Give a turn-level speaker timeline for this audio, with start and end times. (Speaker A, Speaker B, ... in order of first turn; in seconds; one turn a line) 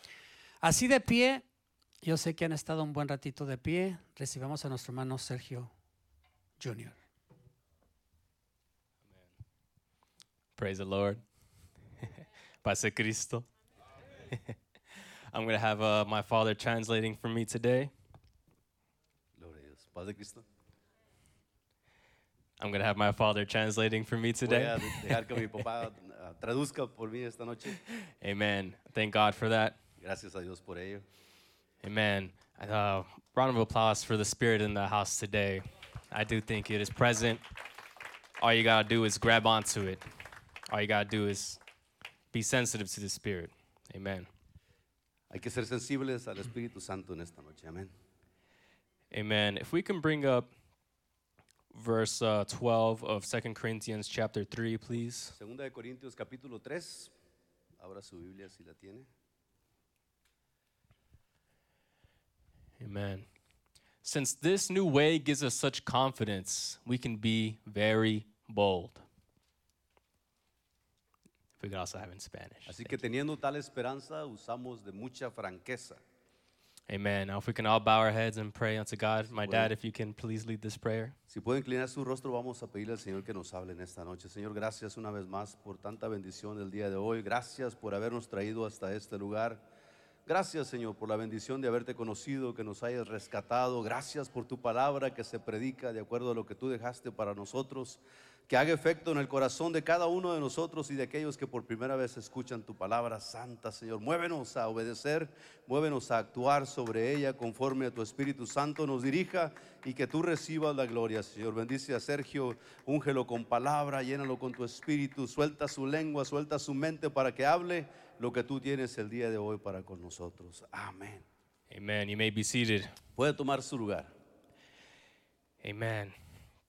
Speaker A: 0.6-1.4
Speaker A: 2.0-5.7
Speaker A: 6.6-7.0
Speaker B: 10.6-11.2
Speaker B: 12.6-13.5
Speaker B: 15.3-17.9
Speaker C: 19.4-20.4
Speaker B: 22.6-25.4
Speaker C: 24.5-27.8
Speaker B: 28.2-29.8
Speaker C: 30.0-31.0
Speaker B: 31.8-37.4
Speaker B: 38.4-40.0
Speaker B: 40.7-41.6
Speaker B: 42.3-44.3
Speaker C: 45.3-47.9
Speaker B: 49.1-50.5
Speaker B: 51.7-55.4
Speaker C: 55.3-57.1
Speaker C: 57.8-59.1
Speaker B: 62.8-63.2
Speaker B: 64.0-69.0
Speaker B: 71.6-73.0
Speaker C: 72.7-76.0
Speaker B: 76.9-81.2
Speaker C: 79.3-79.7
Speaker C: 81.3-89.6
Speaker C: 90.3-121.2
Speaker B: 121.7-122.9
Speaker C: 123.2-124.1
Speaker B: 125.6-126.1